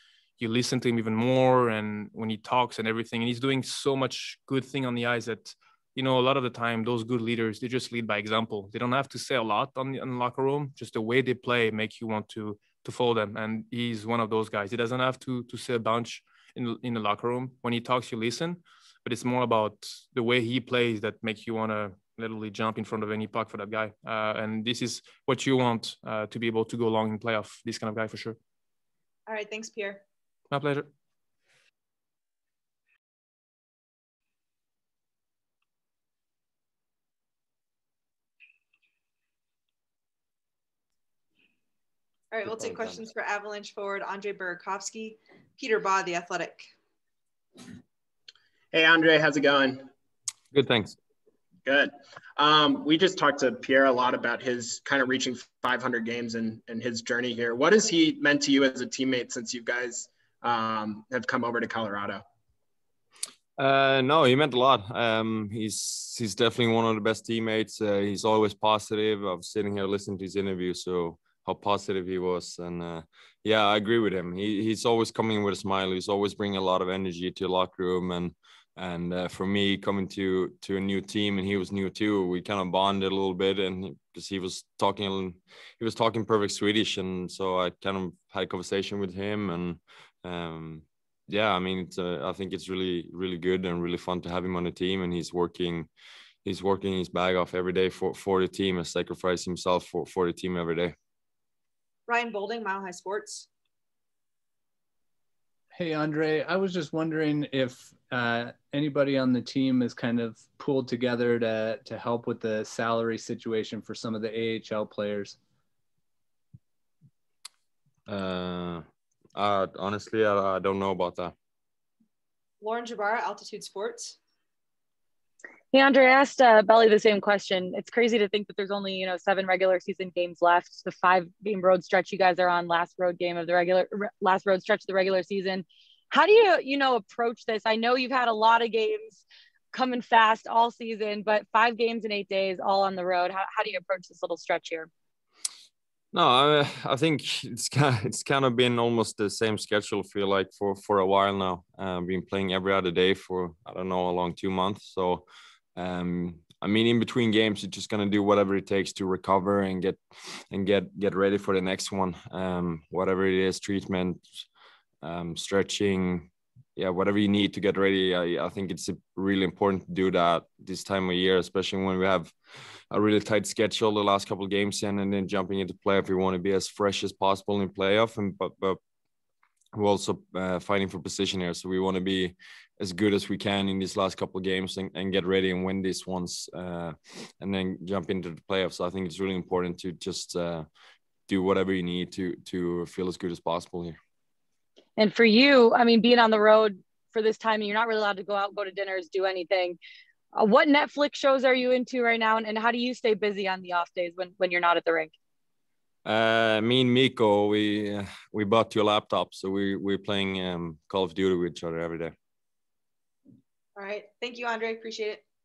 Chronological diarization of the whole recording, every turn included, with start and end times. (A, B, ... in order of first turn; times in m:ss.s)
0:00.4-0:28.4 A
0:29.3-0:30.0 B
0:30.5-0:30.9 A
0:42.3-0:46.7 B
0:42.5-0:43.0 C
0:48.7-0:49.9 D
0:50.5-0:51.0 C
0:51.6-1:02.2 D
1:03.6-1:35.9 C
1:36.4-1:40.9 C
1:42.1-1:43.5 B
1:45.7-1:55.4 E
1:58.1-2:01.3 C
2:02.6-2:04.2 B
2:05.7-2:19.2 F
2:19.7-2:24.9 F
2:26.1-2:44.5 C
2:45.0-2:58.8 C
2:59.7-3:10.7 C
3:11.3-3:14.0 C
3:15.0-3:19.8 F
3:20.3-3:25.1 F
3:26.0-3:32.1 C
3:33.8-3:35.2 B